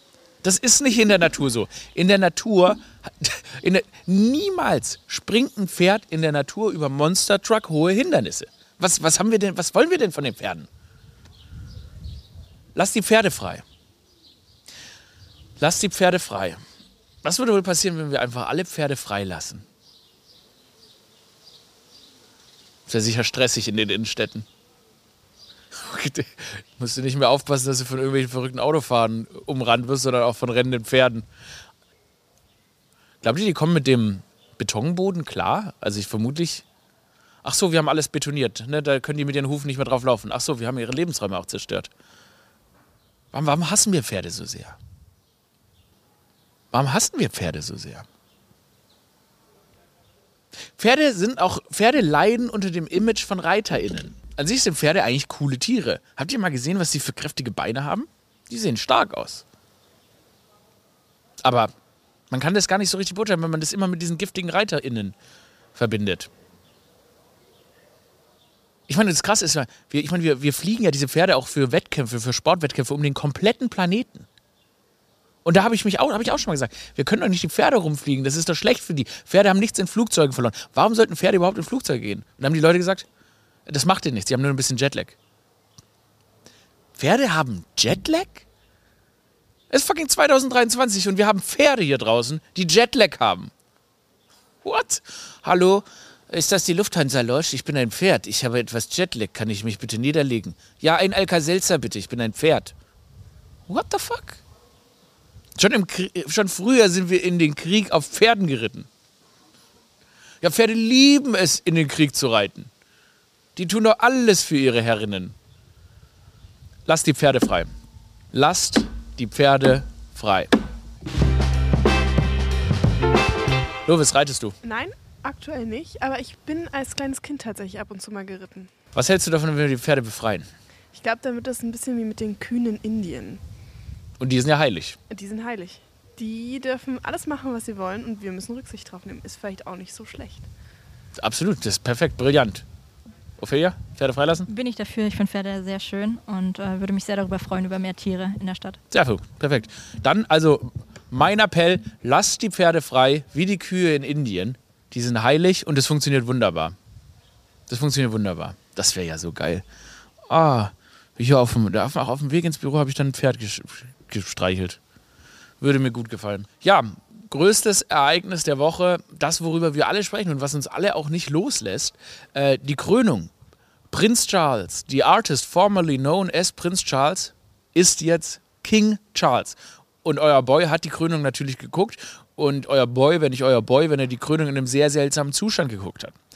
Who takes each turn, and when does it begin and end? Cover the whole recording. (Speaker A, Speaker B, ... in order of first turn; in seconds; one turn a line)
Speaker A: 0.4-10.7
Speaker A: 12.7-13.6
Speaker A: 15.6-16.6
Speaker A: 17.2-19.6
Speaker A: 22.9-24.5
Speaker A: 25.7-31.3
Speaker A: 33.2-36.6
Speaker A: 37.4-41.9
Speaker A: 43.3-44.8
Speaker A: 46.7-48.0
Speaker A: 50.8-59.4
Speaker A: 61.4-61.7
Speaker A: 62.3-65.1
Speaker A: 65.7-66.3
Speaker A: 68.9-74.3
Speaker A: 75.4-83.1
Speaker A: 83.7-85.2
Speaker A: 87.0-88.5
Speaker A: 89.7-93.5
Speaker A: 94.6-102.7
Speaker A: 103.7-104.4
Speaker A: 105.6-108.9
Speaker A: 110.4-112.7
Speaker A: 113.5-115.3
Speaker A: 116.8-117.7
Speaker A: 118.3-120.5
Speaker A: 123.9-124.5
Speaker B: 124.6-128.7
Speaker A: 128.9-130.5
Speaker B: 130.9-133.4
Speaker A: 134.2-135.0
Speaker B: 135.1-140.5
Speaker A: 141.2-142.6
Speaker A: 143.4-144.5
Speaker C: 144.5-148.8
Speaker A: 148.9-156.8
Speaker A: 157.7-159.6
Speaker A: 160.3-164.8
Speaker A: 165.6-173.3
Speaker A: 173.9-186.1